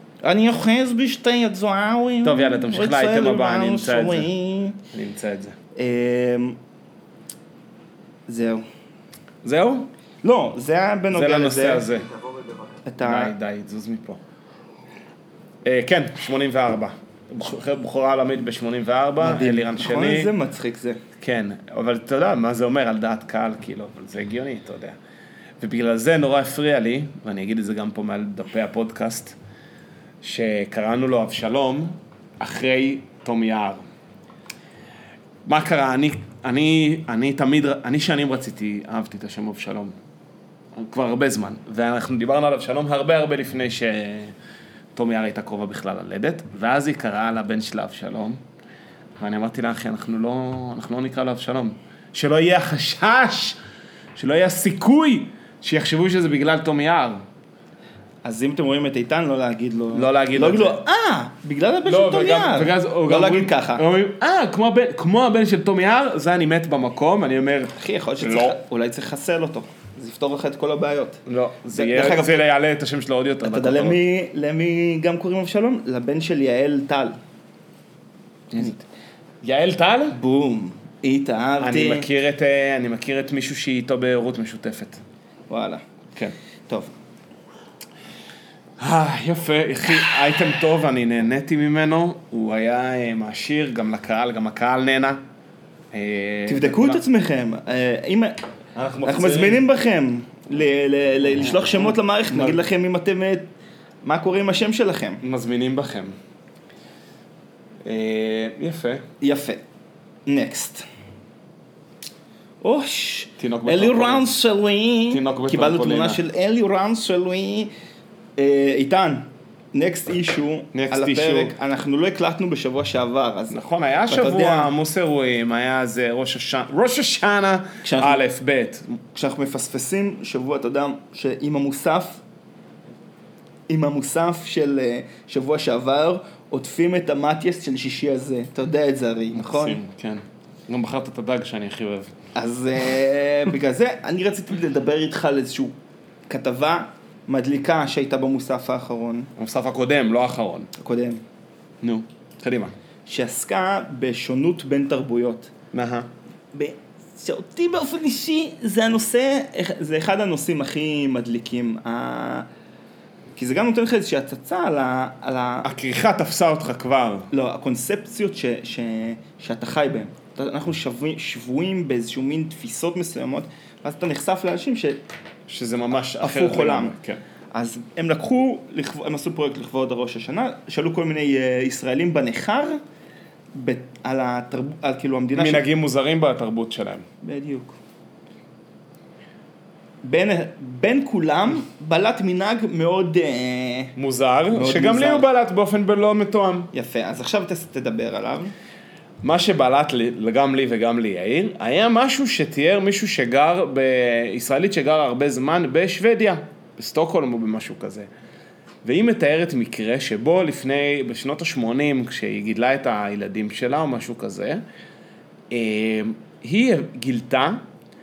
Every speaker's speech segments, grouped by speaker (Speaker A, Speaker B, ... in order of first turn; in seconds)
Speaker A: 0.2-4.8, 5.8-6.6, 8.3-8.6, 10.2-11.9, 12.8-13.3, 19.2-21.0, 58.2-63.8, 67.8-71.2, 71.7-72.4, 73.4-77.2, 80.1-82.0, 85.5-85.8, 96.5-98.4, 99.0-103.5, 104.0-105.2, 109.2-109.6, 110.3-110.8, 112.6-117.7, 118.4-124.7, 127.8-128.2, 129.1-132.2, 133.7-139.8, 142.3-145.7, 146.3-149.3, 150.8-151.2, 153.1-155.5, 156.5-162.5, 163.3-165.7, 167.3-175.0, 176.2-176.9, 177.5-182.8, 183.5-185.6, 187.2-187.8, 190.0-193.9, 194.5-195.3, 196.7-198.5
Speaker B: 2.2-4.3, 4.9-5.5, 9.4-9.9, 11.1-12.1, 13.0-14.2, 15.6-20.3, 21.2-25.0, 25.6-29.4, 30.2-33.8, 35.4-39.9, 40.7-44.3, 44.9-48.4, 49.2-53.6, 54.1-57.2, 59.9-60.8, 61.9-68.6, 71.2-74.0, 78.5-78.8, 79.4-80.2, 81.6-85.0, 88.8-95.2, 95.9-97.0, 98.7-99.6, 101.4-102.6, 105.2-106.1, 107.8-109.0, 113.4-114.3, 115.1-116.2, 120.7-121.5, 123.5-129.0, 139.3-142.1, 149.4-150.7, 151.8-152.7, 155.7-156.1, 165.6-167.3, 175.5-177.2, 185.3-187.1, 193.9-196.7, 199.2-208.1, 208.8-214.6, 215.5-217.6